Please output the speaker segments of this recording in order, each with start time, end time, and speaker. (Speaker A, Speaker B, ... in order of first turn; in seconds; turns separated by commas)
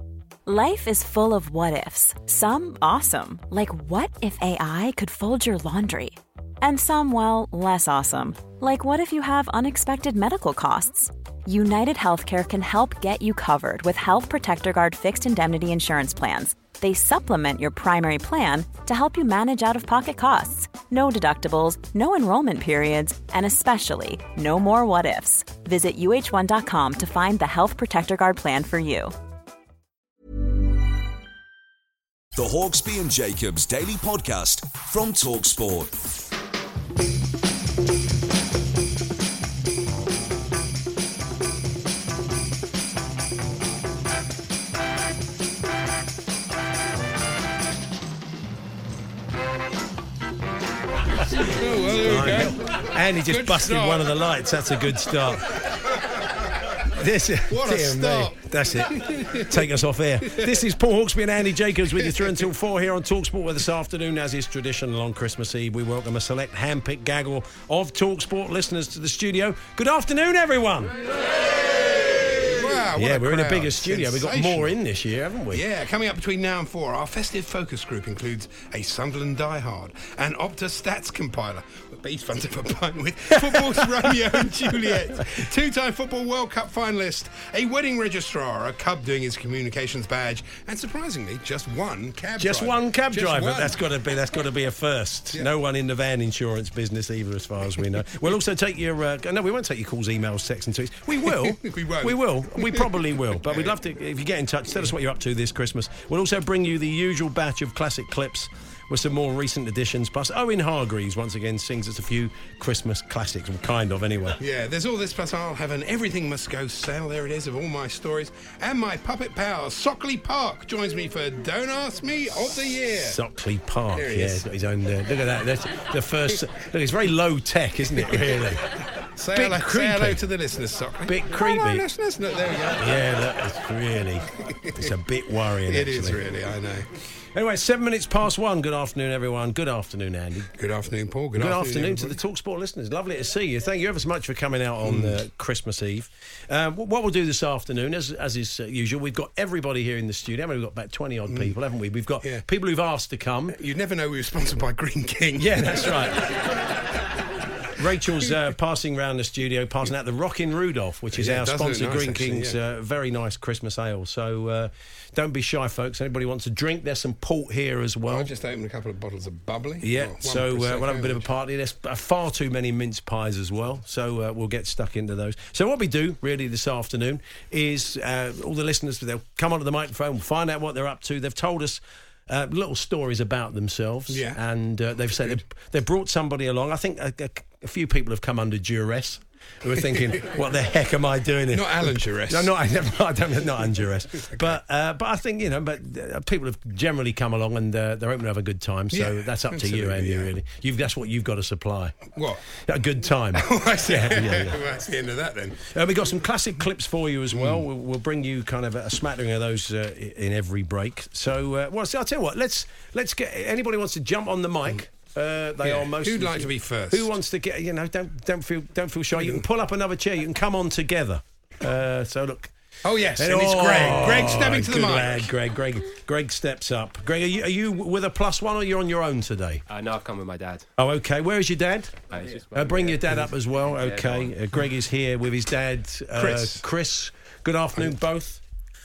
Speaker A: 0.5-29.1, Speaker B: 32.3-36.0, Speaker C: 51.4-54.3, Speaker D: 52.0-55.5, Speaker D: 57.0-70.9, Speaker C: 57.5-59.6, Speaker C: 60.2-60.5, Speaker C: 62.0-62.5, Speaker C: 72.2-74.8, Speaker D: 73.0-75.6, Speaker C: 75.5-93.8, Speaker D: 83.5-83.8, Speaker D: 92.4-114.4, Speaker C: 101.1-103.8, Speaker C: 114.4-123.2, Speaker D: 122.9-128.6, Speaker C: 123.9-124.4, Speaker C: 127.9-128.2, Speaker C: 129.2-133.2, Speaker D: 129.3-130.2, Speaker D: 131.1-131.8, Speaker D: 132.8-136.2, Speaker C: 134.4-134.9, Speaker C: 135.7-136.9, Speaker D: 137.3-140.5, Speaker C: 140.5-142.2, Speaker D: 141.3-153.6, Speaker C: 144.8-145.2, Speaker C: 151.3-151.6, Speaker C: 153.5-156.1, Speaker D: 155.4-156.3, Speaker D: 157.8-168.3, Speaker C: 161.1-162.6, Speaker C: 168.1-171.3, Speaker D: 169.8-202.0, Speaker C: 184.1-184.4, Speaker C: 185.1-185.4, Speaker C: 189.8-190.4, Speaker C: 191.5-192.6, Speaker C: 194.2-194.5, Speaker C: 198.9-200.3, Speaker C: 202.1-202.4, Speaker D: 202.5-204.6, Speaker C: 203.3-205.7, Speaker D: 205.6-222.5, Speaker C: 207.3-207.7, Speaker C: 215.6-217.1, Speaker C: 219.1-219.4, Speaker C: 222.8-225.3, Speaker D: 223.2-229.6, Speaker E: 229.7-230.7, Speaker D: 230.8-238.4, Speaker E: 232.1-234.3, Speaker C: 236.1-236.7, Speaker C: 237.7-238.0